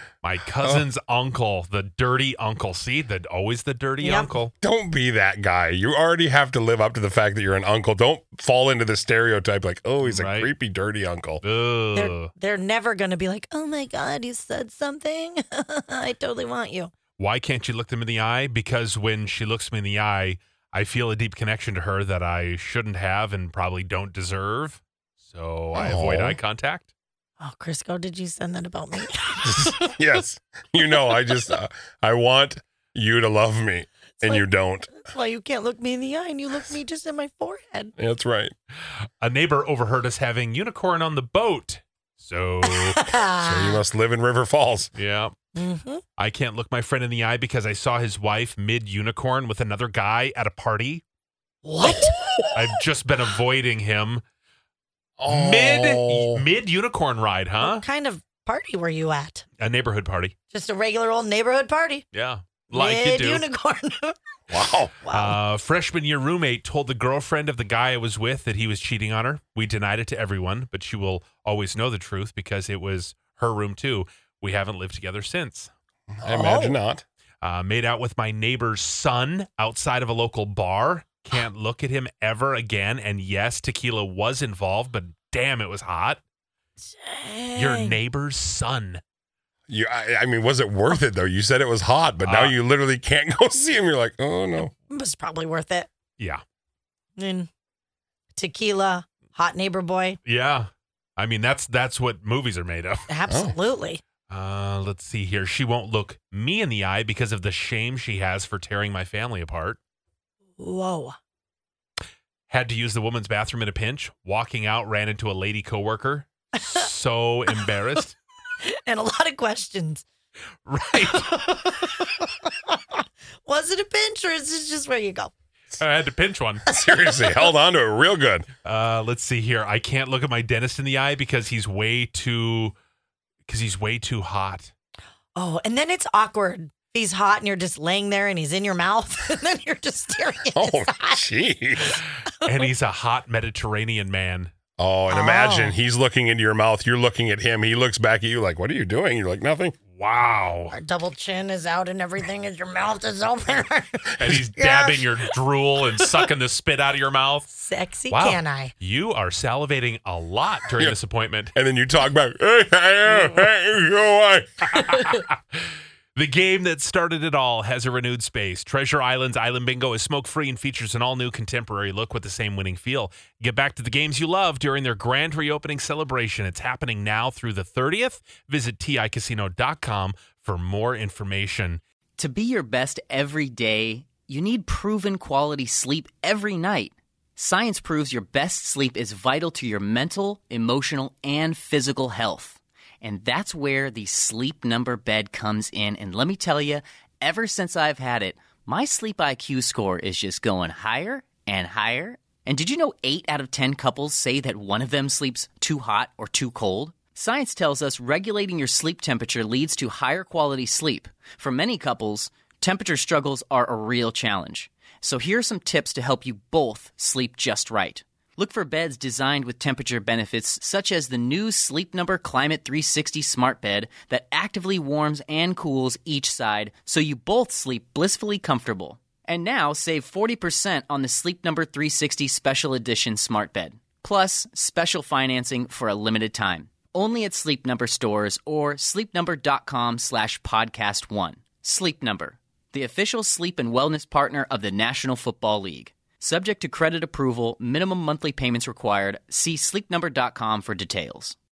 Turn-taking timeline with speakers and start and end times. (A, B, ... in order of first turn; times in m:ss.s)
0:00.2-0:04.5 A
0:04.0-0:04.3 B
0:04.6-0:11.4 C
0:10.0-0:10.5 A
0:11.4-0:12.3 A
0:11.9-0:16.9 B
0:17.2-0:26.9 A
0:25.7-0:26.4 C
0:27.4-0:29.7 B
0:29.4-0:35.0 C
0:35.0-0:37.9 B
0:38.0-0:38.5 C
0:39.2-0:43.0 A
0:42.8-0:43.8 B
0:43.3-0:44.9 C
0:45.0-0:45.4 A
0:45.6-0:46.0 B
0:46.2-0:51.0 A
0:51.6-0:52.2 B
0:52.5-0:54.2 A
0:55.2-0:56.4 C
0:55.3-0:57.8 A
0:57.6-0:59.4 B
0:59.6-1:00.3 A
1:00.5-1:02.0 B
1:02.1-1:03.5 A
1:02.7-1:04.2 B
1:04.5-1:04.9 C
1:05.0-1:05.4 B
1:05.1-1:15.7 A
1:16.1-1:17.0 C
1:16.2-1:16.8 B
1:17.4-1:26.2 A
1:26.9-1:28.0 B
1:27.6-1:29.0 A
1:29.7-1:34.7 C
1:32.2-1:32.6 A
1:34.9-1:35.9 B
1:36.2-1:36.4 A
1:37.2-1:37.5 B
1:38.3-1:40.2 B
1:40.2-1:43.1 A
1:43.1-1:44.0 B
1:43.3-1:43.6 C
1:44.3-1:49.8 A
1:50.6-1:51.2 B
1:52.5-1:58.2 A
1:58.6-2:00.0 B
2:00.7-2:01.7 A
2:01.0-2:05.3 B
2:05.8-2:06.6 A
2:06.7-2:08.5 C
2:06.8-2:07.4 B
2:08.6-2:12.8 A
2:13.5-2:14.7 A
2:15.4-2:21.2 B
2:20.5-2:22.0 C
2:22.4-2:24.5 A
2:24.8-2:29.8 C
2:25.1-2:25.8 B
2:29.9-2:30.8 A
2:30.7-2:35.3 B
2:34.2-2:37.5 A
2:37.5-2:38.7 B
2:38.1-2:41.5 A
2:41.6-2:44.8 C
2:44.8-2:45.4 A
2:46.2-3:01.8 A
3:02.2-4:11.4 D